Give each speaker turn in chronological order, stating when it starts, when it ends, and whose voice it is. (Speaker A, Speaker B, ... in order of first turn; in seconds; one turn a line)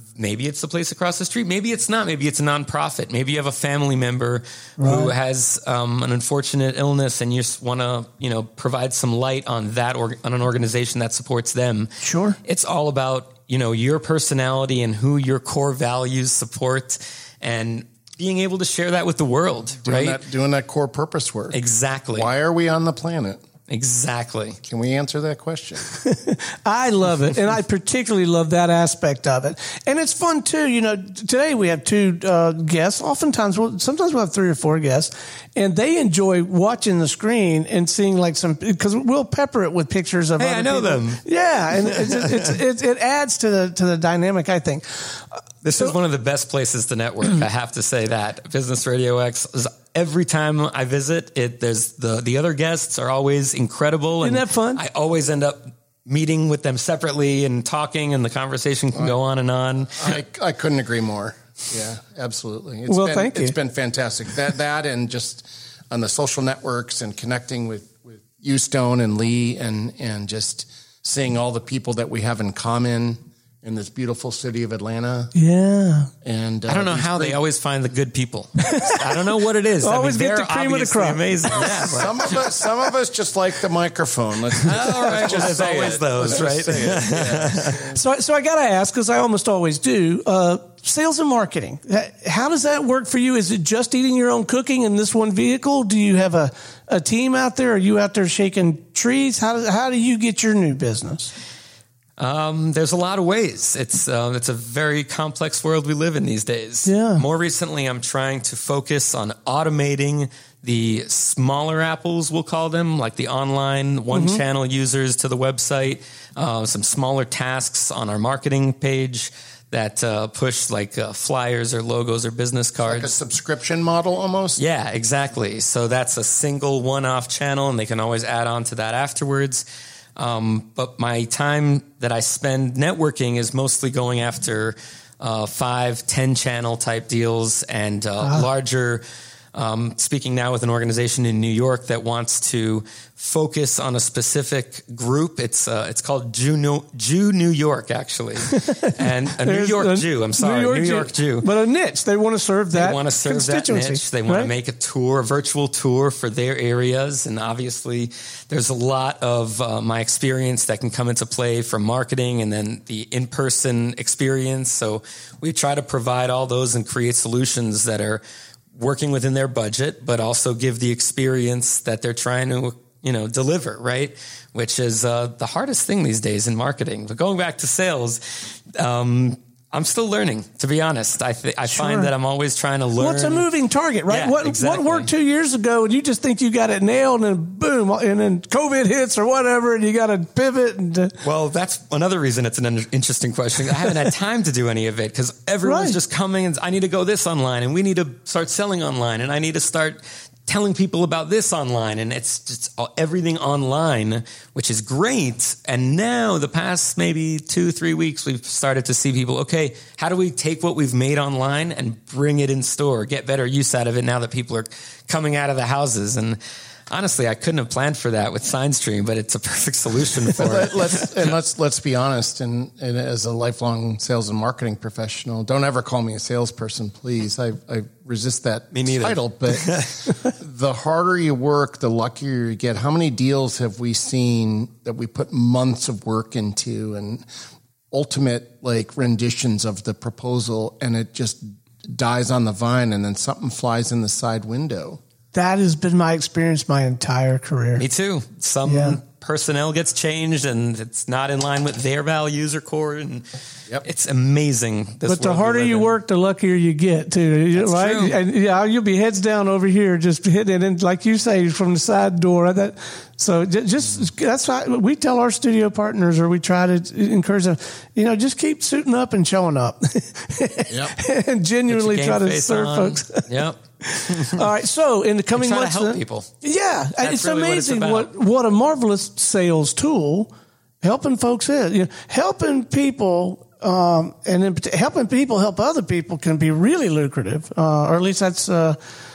Speaker A: 0.1-20.2
Speaker B: 4.8-5.1
Speaker B: 12.0-12.4
Speaker C: 19.8-21.6
Speaker A: 21.5-22.3
Speaker C: 22.1-23.4
Speaker A: 23.7-24.6
Speaker C: 24.6-25.8
Speaker B: 25.9-45.9
Speaker A: 40.4-41.2
Speaker A: 41.8-42.3
Speaker A: 45.6-60.2
Speaker B: 54.2-54.8
Speaker C: 59.9-75.3
Speaker B: 62.9-63.5
Speaker B: 75.3-76.1
Speaker C: 76.2-77.4
Speaker A: 76.7-82.5
Speaker B: 78.6-82.0
Speaker C: 81.5-88.0
Speaker A: 84.6-87.9
Speaker B: 87.9-101.3
Speaker A: 102.2-123.1
Speaker B: 106.8-107.2
Speaker B: 114.1-114.4
Speaker C: 122.8-124.6
Speaker A: 124.6-129.6
Speaker A: 130.2-139.0
Speaker B: 138.2-138.5
Speaker A: 139.5-151.5
Speaker B: 148.4-154.5
Speaker A: 152.7-168.2
Speaker A: 168.7-183.4
Speaker B: 181.7-182.1
Speaker B: 183.0-191.2
Speaker A: 184.1-185.1
Speaker A: 191.2-216.4
Speaker B: 195.6-196.0
Speaker A: 216.9-221.3
Speaker C: 220.4-237.2
Speaker A: 228.7-230.2
Speaker C: 237.9-245.0
Speaker B: 245.3-247.8
Speaker A: 247.8-253.2
Speaker B: 248.6-249.0
Speaker A: 253.8-255.9
Speaker B: 255.1-273.3
Speaker A: 257.6-258.2
Speaker C: 270.7-270.9
Speaker A: 271.7-274.5
Speaker B: 273.8-280.3
Speaker A: 275.3-276.3
Speaker A: 277.0-278.1
Speaker B: 280.8-288.8